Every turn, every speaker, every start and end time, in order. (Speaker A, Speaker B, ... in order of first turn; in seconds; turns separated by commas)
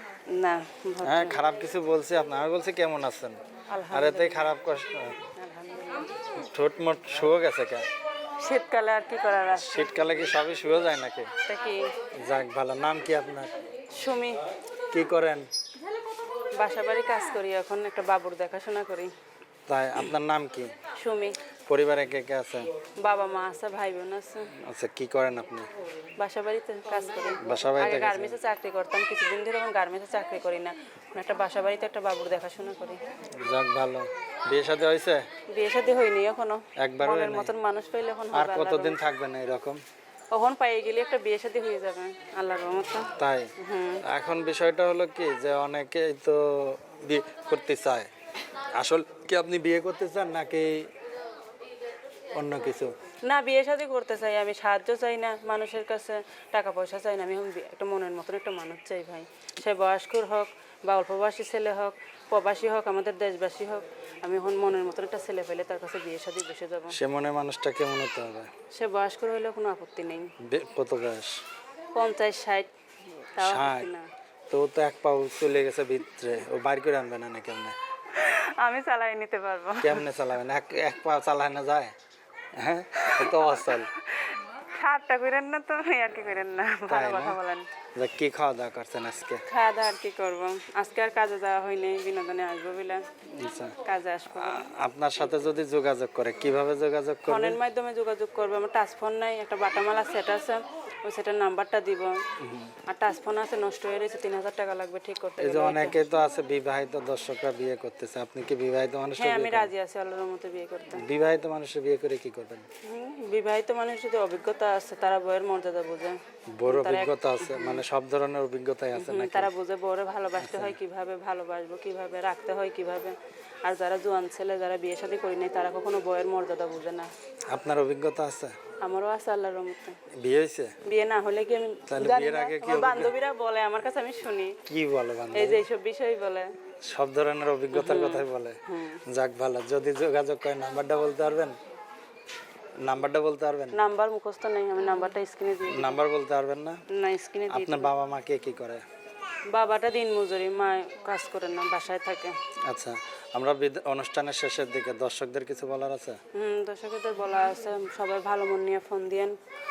Speaker A: 0.3-1.4, Speaker B: 1.0-3.4, Speaker A: 3.7-4.6, Speaker B: 3.9-5.2, Speaker A: 5.3-6.1, Speaker B: 6.4-7.8, Speaker A: 8.4-10.3, Speaker B: 9.5-11.3, Speaker A: 11.5-11.9, Speaker B: 12.2-13.5, Speaker A: 13.9-14.4, Speaker B: 14.9-15.5, Speaker A: 16.6-19.1, Speaker B: 19.7-20.7, Speaker A: 20.9-21.4, Speaker B: 21.7-22.7, Speaker A: 23.0-24.5, Speaker B: 24.6-25.7, Speaker A: 26.2-33.1, Speaker B: 27.4-28.4, Speaker B: 33.4-35.3, Speaker A: 35.5-39.0, Speaker B: 36.8-37.5, Speaker B: 38.3-39.8, Speaker A: 40.3-44.0, Speaker B: 43.2-43.5, Speaker B: 44.0-48.1, Speaker B: 48.8-50.8, Speaker B: 52.4-52.9, Speaker A: 53.3-67.0, Speaker B: 66.9-68.5, Speaker A: 68.7-70.3, Speaker B: 70.4-71.3, Speaker A: 71.9-74.1, Speaker B: 73.4-73.9, Speaker B: 74.5-77.8, Speaker A: 78.1-80.1, Speaker B: 79.8-81.9, Speaker B: 82.6-83.9, Speaker A: 83.2-87.7, Speaker B: 86.9-87.4, Speaker B: 88.0-89.4, Speaker A: 89.5-93.0, Speaker B: 93.4-93.8, Speaker A: 93.8-94.7, Speaker B: 94.3-97.6, Speaker A: 97.3-102.2, Speaker B: 102.4-102.7, Speaker A: 102.9-106.0, Speaker B: 105.4-109.7, Speaker A: 109.2-111.0, Speaker B: 111.0-112.7, Speaker A: 112.8-117.8, Speaker B: 116.6-119.5, Speaker A: 119.0-127.1, Speaker B: 120.4-120.8, Speaker B: 127.5-128.5, Speaker A: 128.8-130.0, Speaker B: 130.2-130.8, Speaker A: 130.8-134.6, Speaker B: 131.9-133.1, Speaker B: 134.7-135.6, Speaker A: 135.3-136.5, Speaker B: 136.9-141.6, Speaker A: 137.7-139.0, Speaker B: 142.8-143.8, Speaker A: 143.7-146.0, Speaker B: 145.7-146.8, Speaker A: 146.9-147.9, Speaker B: 147.5-148.8, Speaker A: 149.5-152.4, Speaker B: 152.7-156.2, Speaker A: 156.3-159.3